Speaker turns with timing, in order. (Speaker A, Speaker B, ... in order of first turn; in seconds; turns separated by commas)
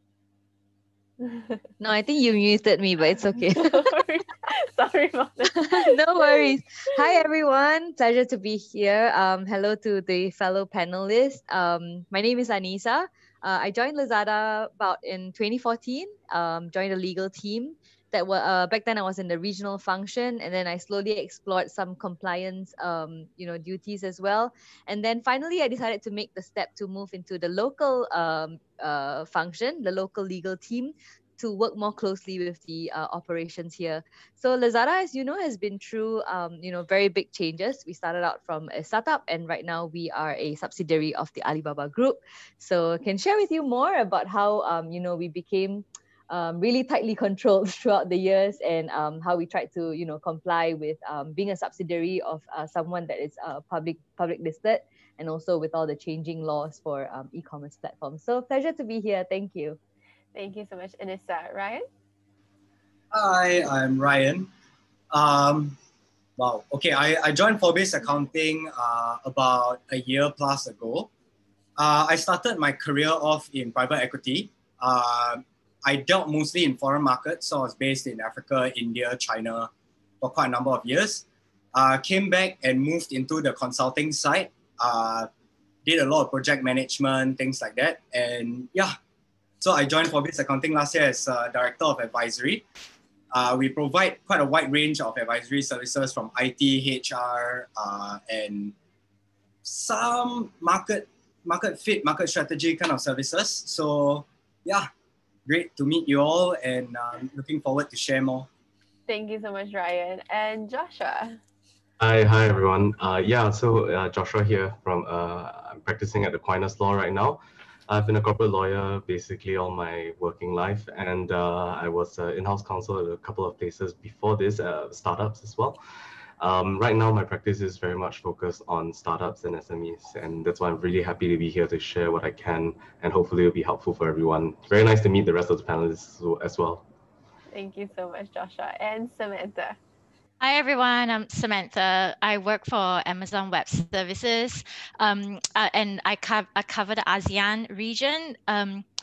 Speaker A: 1.2-1.6, Speaker B: 1.8-4.0, Speaker A: 3.3-6.4, Speaker B: 5.5-59.8, Speaker A: 60.3-61.9, Speaker C: 63.1-64.5, Speaker C: 65.1-65.8, Speaker C: 66.4-71.1, Speaker C: 71.8-79.7, Speaker C: 80.2-85.3, Speaker C: 85.8-89.0, Speaker C: 89.6-92.6, Speaker C: 93.3-98.8, Speaker C: 99.6-104.9, Speaker C: 105.5-108.5, Speaker A: 109.1-111.4, Speaker D: 112.0-125.8, Speaker D: 126.4-136.8, Speaker A: 137.5-139.8, Speaker E: 140.4-148.8